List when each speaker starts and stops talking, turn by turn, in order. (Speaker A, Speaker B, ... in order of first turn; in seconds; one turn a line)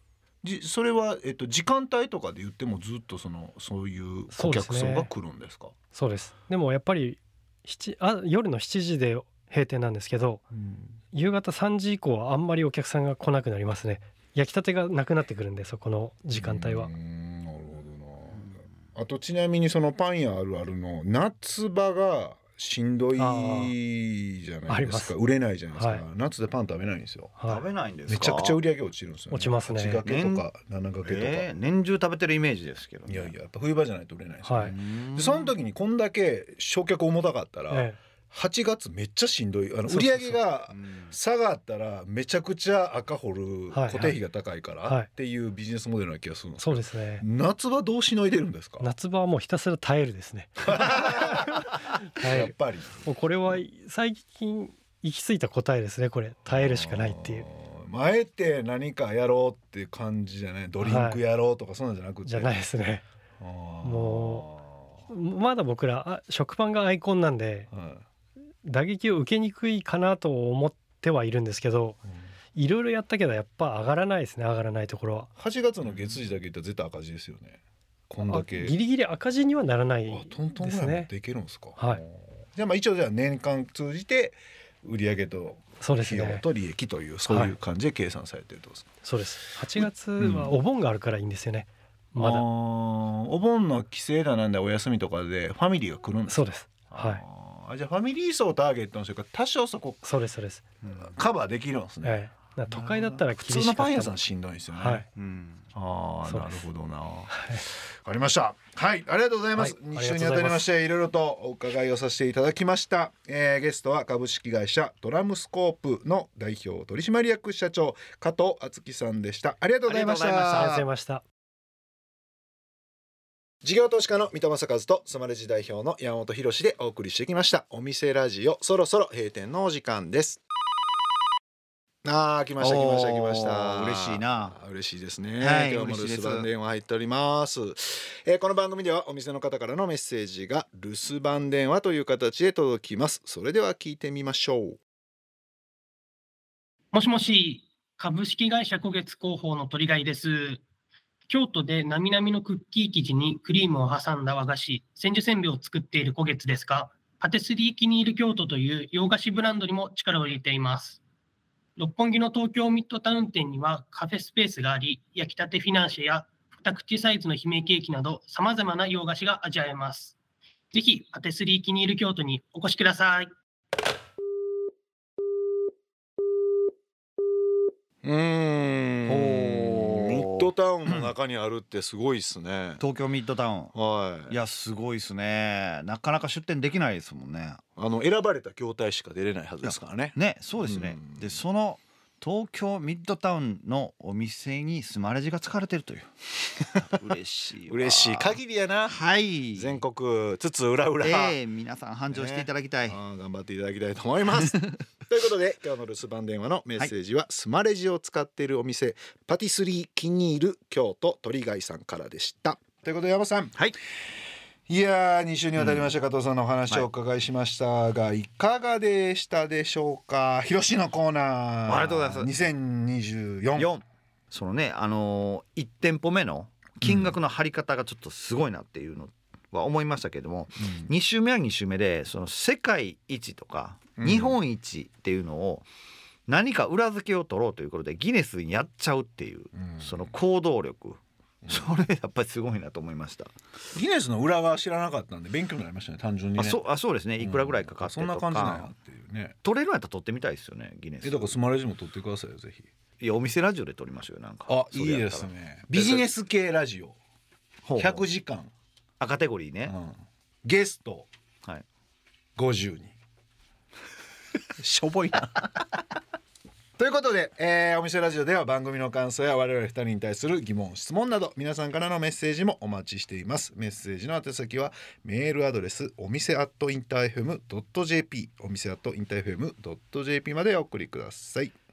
Speaker A: 0.4-5.7
Speaker B: 4.3-5.1
Speaker B: 5.9-10.4
Speaker A: 10.5-11.0
Speaker B: 11.1-16.9
Speaker A: 16.4-27.3
Speaker B: 23.2-23.8
Speaker B: 24.7-25.1
Speaker B: 25.8-26.0
Speaker B: 27.4-27.6
Speaker C: 27.5-28.6
Speaker A: 28.1-31.5
Speaker B: 29.3-30.0
Speaker C: 30.1-30.4
Speaker C: 31.0-33.3
Speaker A: 33.1-48.9
Speaker B: 34.5-34.8
Speaker C: 34.7-35.5
Speaker B: 37.7-38.0
Speaker B: 39.9-40.4
Speaker C: 40.7-41.1
Speaker B: 43.7-44.2
Speaker B: 46.6-47.2
Speaker B: 48.8-57.5
Speaker A: 50.7-53.0
Speaker A: 56.5-62.5
Speaker B: 60.8-61.2
Speaker B: 62.3-63.0
Speaker A: 63.4-65.0
Speaker B: 63.8-64.5
Speaker B: 65.1-67.7
Speaker A: 67.7-68.0
Speaker B: 68.6-72.0
Speaker B: 72.5-75.3
Speaker A: 75.4-78.8
Speaker B: 78.3-81.1
Speaker A: 80.1-88.9
Speaker B: 85.8-86.4
Speaker B: 87.3-87.5
Speaker B: 89.0-92.4
Speaker A: 89.8-90.5
Speaker A: 92.2-100.0
Speaker B: 96.3-97.2
Speaker B: 100.0-100.6
Speaker A: 101.0-105.0
Speaker B: 102.0-104.2
Speaker B: 104.8-105.1
Speaker C: 105.2-105.6
Speaker A: 105.7-120.8
Speaker B: 106.3-106.7
Speaker B: 107.3-107.6
Speaker B: 109.6-110.7
Speaker C: 119.9-120.8
Speaker B: 120.4-121.2
Speaker A: 123.6-130.4
Speaker A: 132.0-144.8
Speaker C: 132.6-134.6
Speaker C: 135.4-136.5
Speaker D: 146.9-150.6
Speaker D: 151.3-161.0
Speaker D: 161.8-170.2
Speaker D: 170.7-173.3
Speaker A: 178.0-182.8
Speaker C: 179.1-180.5
Speaker C: 182.8-183.7
Speaker A: 183.7-184.4
Speaker C: 184.3-187.6
Speaker A: 187.8-191.3
Speaker C: 189.6-199.8
Speaker A: 197.7-199.0
Speaker A: 199.5-201.4
Speaker C: 201.0-203.0
Speaker A: 202.1-213.6
Speaker A: 214.7-223.7
Speaker C: 215.6-215.8
Speaker C: 221.7-222.3
Speaker C: 223.6-235.7
Speaker A: 226.8-227.2
Speaker A: 230.6-230.9
Speaker A: 234.0-234.4
Speaker C: 236.3-243.3
Speaker A: 239.5-240.1
Speaker A: 241.4-241.7
Speaker A: 243.7-246.6
Speaker C: 246.4-248.7
Speaker A: 247.2-249.4
Speaker C: 249.4-251.3
Speaker A: 251.0-252.7
Speaker C: 253.0-256.1
Speaker A: 254.5-257.0
Speaker C: 257.6-258.1
Speaker A: 257.8-258.5
Speaker C: 259.0-259.7
Speaker A: 259.7-261.1
Speaker A: 262.4-262.9
Speaker A: 264.6-265.5
Speaker A: 266.8-281.5